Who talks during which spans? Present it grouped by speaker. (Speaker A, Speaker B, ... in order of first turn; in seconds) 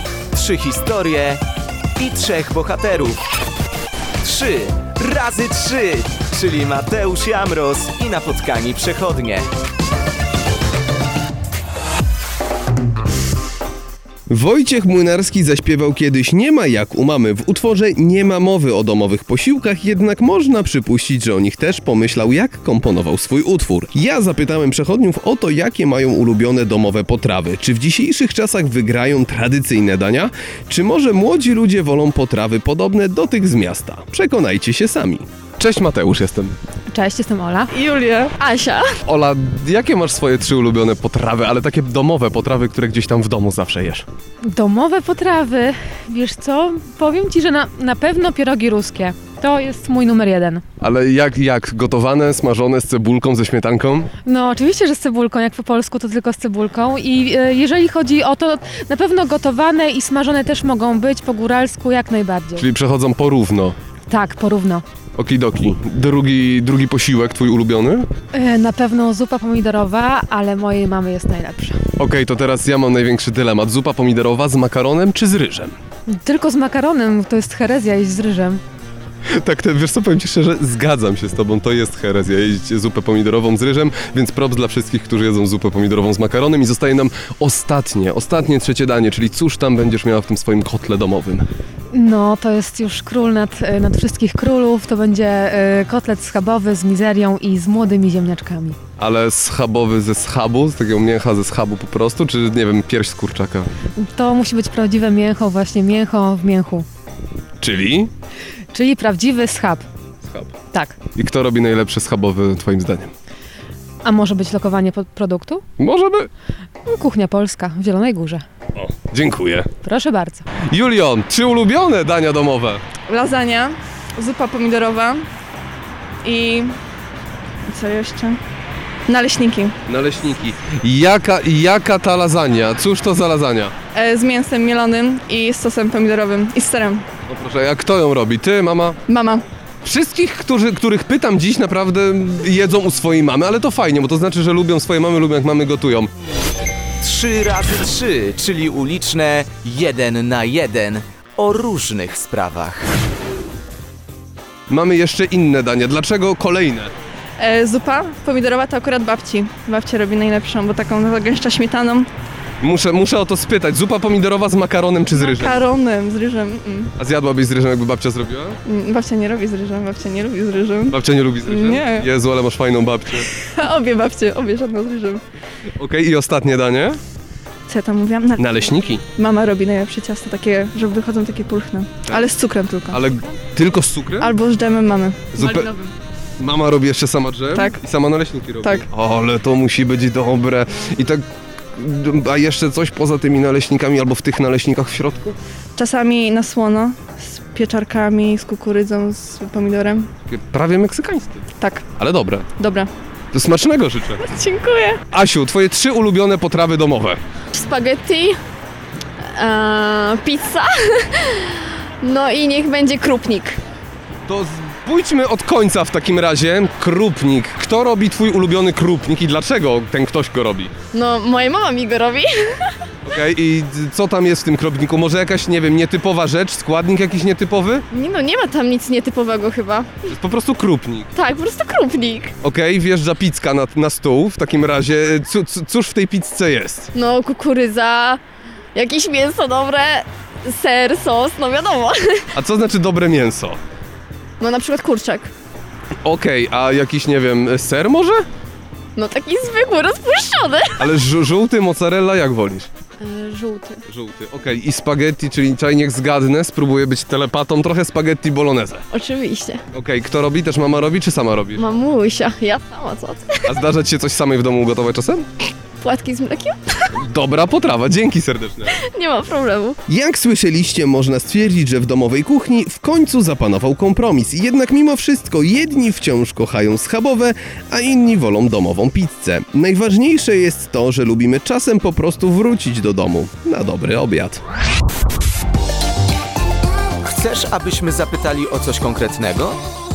Speaker A: 0.3-1.4, 2.0-3.2, 4.2-9.5, 147.0-152.9, 287.0-289.6
Speaker B: 14.3-36.6, 39.0-44.1, 50.8-54.1, 62.6-63.8, 65.2-68.1, 72.0-75.8, 79.3-91.5, 99.0-103.7, 107.6-108.1, 110.2-110.5, 111.2-113.1, 115.8-116.3, 118.8-119.7, 120.7-122.8, 129.9-133.7, 137.3-139.0, 139.8-146.1, 154.7-156.9, 162.6-165.6, 167.0-168.6, 170.9-173.3, 175.8-177.0, 178.4-179.0, 182.9-184.4, 185.3-185.7, 186.4-191.2, 191.8-195.4, 200.3-201.5, 202.0-202.5, 203.3-204.2, 205.1-207.2, 214.3-220.7, 223.1-227.8, 230.1-231.1, 232.4-236.9, 242.3-243.6, 246.0-248.2, 250.8-252.7, 253.9-258.8, 259.7-261.6, 263.4-265.3, 266.9-268.8, 269.9-284.4
Speaker C: 36.9-37.7, 44.5-50.6, 54.3-62.7, 64.1-64.8, 68.3-71.8, 76.1-78.6, 91.9-98.8, 104.0-106.9, 108.7-109.9, 110.7-111.0, 114.0-115.7, 116.9-118.4, 119.8-120.5
Speaker D: 37.7-38.4, 123.1-125.2, 126.2-126.7, 127.7-128.4, 129.1-129.8, 133.9-137.0, 139.1-139.4, 157.4-162.1, 165.2-166.9, 168.7-172.1, 173.4-175.2, 177.7-178.6, 179.2-183.0, 184.2-185.9, 195.8-200.1, 201.6-201.9, 202.6-202.9
Speaker E: 38.4-38.9, 204.2-205.0, 207.5-208.4, 209.2-213.6, 220.9-222.7, 227.9-229.9, 231.2-232.3, 236.9-238.2, 238.7-242.3, 244.4-245.3, 248.9-250.8, 253.0-253.8, 258.9-259.6, 261.6-263.5, 265.8-266.9, 268.7-269.8